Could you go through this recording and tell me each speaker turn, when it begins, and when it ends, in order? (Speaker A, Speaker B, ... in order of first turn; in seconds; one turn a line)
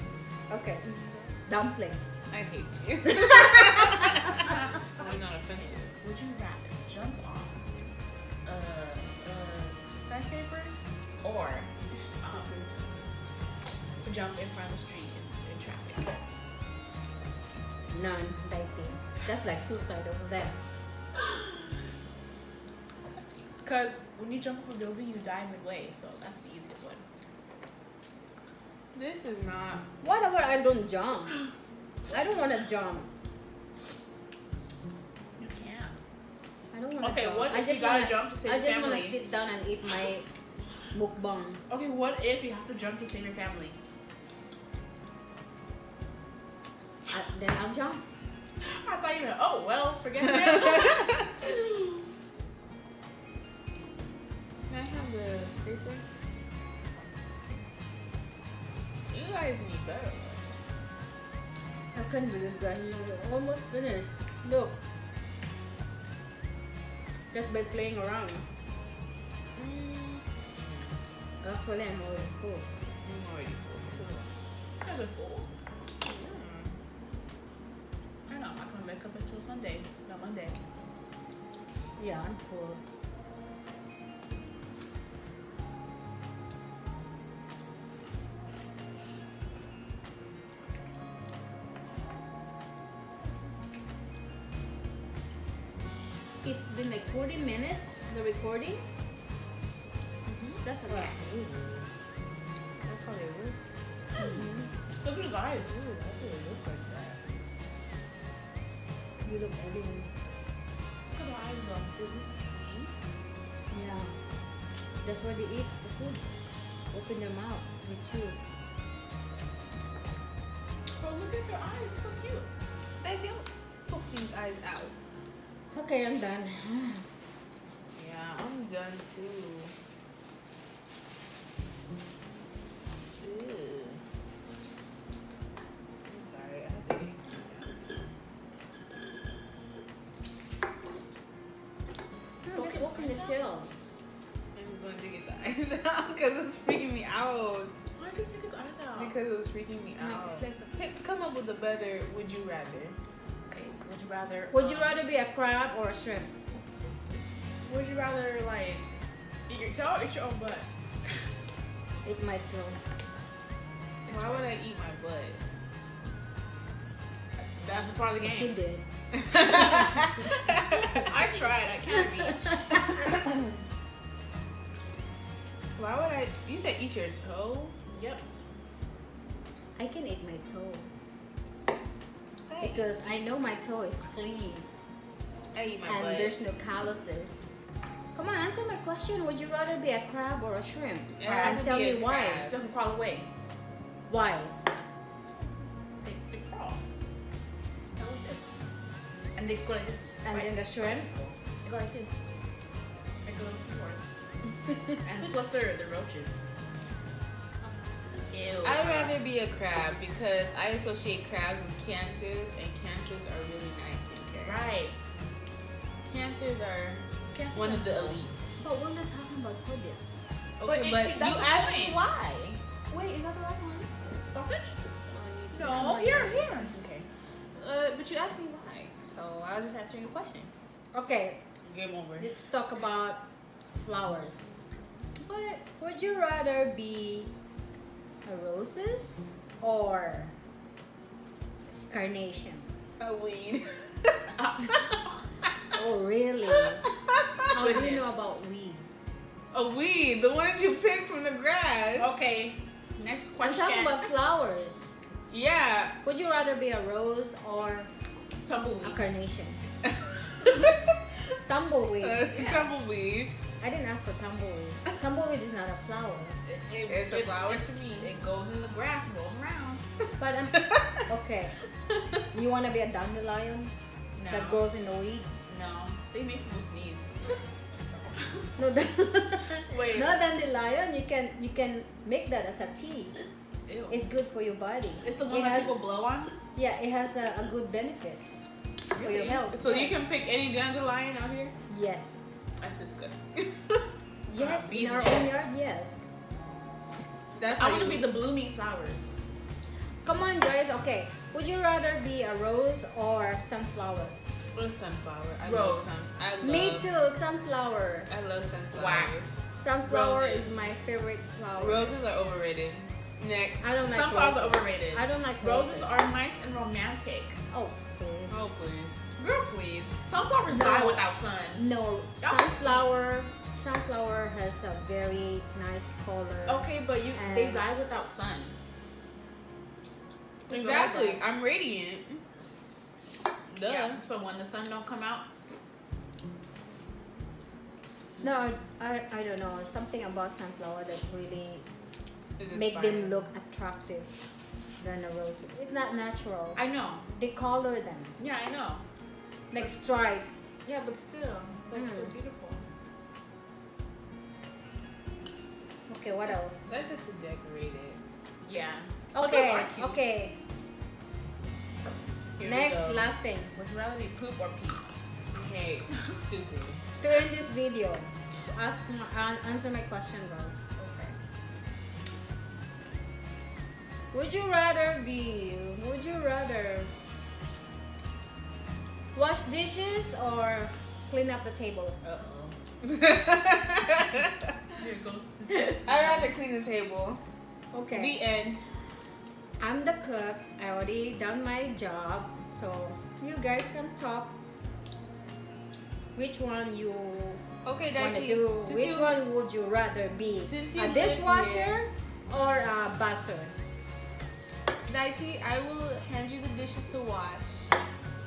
Speaker A: 0.5-0.9
Speaker B: 0.9-1.2
Speaker A: 1.4-2.0
Speaker B: 2.3-5.9
Speaker A: 3.0-4.2
Speaker C: 4.4-7.5
Speaker C: 8.4-11.7
Speaker C: 12.2-12.5
Speaker C: 14.0-16.2
Speaker A: 17.9-20.6
Speaker C: 23.6-27.0
Speaker B: 28.9-29.8
Speaker A: 30.0-31.4
Speaker A: 32.1-33.1
Speaker C: 35.4-35.9
Speaker A: 36.7-40.2
Speaker C: 37.0-39.1
Speaker A: 40.9-41.6
Speaker C: 41.7-43.8
Speaker A: 47.1-48.0
Speaker C: 48.6-51.4
Speaker B: 54.7-56.0
Speaker B: 59.1-60.6
Speaker A: 61.9-64.8
Speaker A: 67.3-68.5
Speaker B: 69.5-71.0
Speaker A: 71.4-72.7
Speaker B: 73.0-74.3
Speaker C: 74.8-75.5
Speaker B: 76.0-76.8
Speaker C: 78.3-80.6
Speaker A: 82.0-82.8
Speaker A: 96.4-98.8
Speaker B: 100.3-101.9
Speaker A: 100.6-101.2
Speaker B: 102.8-103.6
Speaker A: 104.2-104.7
Speaker C: 105.0-105.8
Speaker B: 105.8-107.2
Speaker A: 109.2-110.1
Speaker C: 111.1-112.2
Speaker B: 112.2-112.9
Speaker A: 113.7-114.1
Speaker A: 115.0-116.2
Speaker A: 116.9-118.4
Speaker C: 121.0-122.5
Speaker B: 123.0-124.9
Speaker A: 125.7-127.0
Speaker B: 127.9-129.7
Speaker B: 133.2-134.0
Speaker B: 136.1-138.0
Speaker A: 142.4-143.7
Speaker C: 142.5-143.4
Speaker B: 144.5-147.8
Speaker C: 148.0-149.1
Speaker B: 149.0-153.0
Speaker A: 150.0-150.8
Speaker C: 153.5-154.9
Speaker A: 154.5-156.3
Speaker C: 157.7-158.9
Speaker C: 159.5-161.2
Speaker A: 162.0-162.8
Speaker C: 164.0-164.6
Speaker B: 164.1-165.4
Speaker C: 167.6-168.5
Speaker A: 168.2-168.8
Speaker B: 169.1-171.1
Speaker C: 169.6-170.0
Speaker C: 170.9-173.1
Speaker B: 175.8-177.8
Speaker C: 177.9-178.2
Speaker A: 179.8-180.9
Speaker B: 182.5-182.8
Speaker A: 182.6-184.7
Speaker B: 185.5-186.4
Speaker A: 185.8-187.5
Speaker A: 188.1-192.5
Speaker B: 191.2-192.6
Speaker C: 191.2-191.7
Speaker C: 192.4-193.3
Speaker A: 194.1-194.5
Speaker C: 196.0-196.8
Speaker C: 198.0-198.5
Speaker C: 199.3-202.2
Speaker A: 200.2-201.1
Speaker C: 203.2-204.2
Speaker C: 205.0-206.4
Speaker C: 208.3-209.1
Speaker B: 208.6-214.6
Speaker C: 214.4-214.9
Speaker B: 216.1-218.6
Speaker C: 217.3-218.2
Speaker A: 218.6-220.1
Speaker B: 220.6-223.9
Speaker C: 220.6-222.0
Speaker C: 224.3-224.8
Speaker B: 225.1-230.5
Speaker C: 225.5-226.8
Speaker A: 225.7-226.2
Speaker A: 230.9-231.4
Speaker B: 231.6-232.3
Speaker A: 232.2-233.2
Speaker A: 233.8-234.4
Speaker B: 235.2-235.6
Speaker A: 235.8-237.3
Speaker A: 238.2-240.3
Speaker A: 241.9-242.7
Speaker B: 243.0-244.3
Speaker C: 244.4-244.7
Speaker A: 245.7-246.8
Speaker B: 247.1-247.3
Speaker A: 247.5-248.9
Speaker C: 247.5-248.1
Speaker B: 249.5-252.2
Speaker C: 252.0-254.0
Speaker A: 253.4-254.9
Speaker B: 255.3-256.0
Speaker A: 256.0-257.9
Speaker C: 258.4-259.0
Speaker A: 258.8-259.6
Speaker B: 259.8-260.8
Speaker A: 261.5-262.5
Speaker B: 262.0-263.3
Speaker C: 262.3-262.6
Speaker A: 263.6-266.4
Speaker C: 266.4-270.6
Speaker B: 266.9-268.1
Speaker B: 270.5-271.0
Speaker A: 271.1-271.5
Speaker A: 272.3-273.7
Speaker C: 274.1-274.6
Speaker A: 274.3-275.3
Speaker C: 275.5-277.2
Speaker A: 278.6-283.1
Speaker C: 279.7-280.1
Speaker C: 283.7-284.1
Speaker A: 283.9-285.7
Speaker C: 285.0-286.3
Speaker A: 286.5-290.0
Speaker C: 288.9-289.4
Speaker B: 289.1-291.5
Speaker A: 291.7-292.2
Speaker C: 292.6-292.9
Speaker B: 292.9-293.8
Speaker A: 294.3-296.0
Speaker C: 294.4-295.3
Speaker B: 297.3-298.1
Speaker C: 297.6-299.1
Speaker A: 300.0-304.2
Speaker B: 304.5-306.9
Speaker C: 305.4-306.1
Speaker A: 306.4-308.1
Speaker B: 308.1-309.4
Speaker C: 308.7-309.2
Speaker A: 309.5-312.0
Speaker C: 309.9-310.6
Speaker B: 311.6-313.7
Speaker A: 313.6-315.9
Speaker C: 313.8-317.4
Speaker A: 317.5-318.5
Speaker B: 318.3-318.9
Speaker C: 319.1-321.6
Speaker A: 320.5-321.0
Speaker A: 321.6-327.7
Speaker C: 322.2-322.9
Speaker C: 326.5-328.5
Speaker C: 330.5-331.1
Speaker B: 330.5-332.2
Speaker A: 330.5-331.2
Speaker B: 333.5-334.0
Speaker C: 333.6-335.3
Speaker A: 338.2-341.6
Speaker B: 342.4-343.2
Speaker A: 342.5-344.1
Speaker A: 344.8-348.1
Speaker C: 346.6-347.1
Speaker C: 348.2-348.8
Speaker A: 349.5-350.4
Speaker C: 350.6-352.7
Speaker A: 351.7-352.1
Speaker A: 355.9-356.6
Speaker B: 356.7-358.0
Speaker C: 358.4-360.0
Speaker A: 359.1-360.4
Speaker B: 362.4-363.1
Speaker A: 362.4-363.5
Speaker C: 363.6-364.8
Speaker B: 365.3-366.8
Speaker A: 367.0-370.6
Speaker C: 370.8-371.1
Speaker A: 374.1-376.9
Speaker A: 379.1-382.0
Speaker B: 382.0-384.7
Speaker C: 384.8-386.3
Speaker B: 385.5-387.2
Speaker A: 387.7-388.2
Speaker B: 387.9-388.6
Speaker A: 389.6-394.3
Speaker A: 396.1-397.4
Speaker B: 397.6-399.2
Speaker A: 398.0-403.5
Speaker B: 400.4-401.8
Speaker B: 404.9-407.5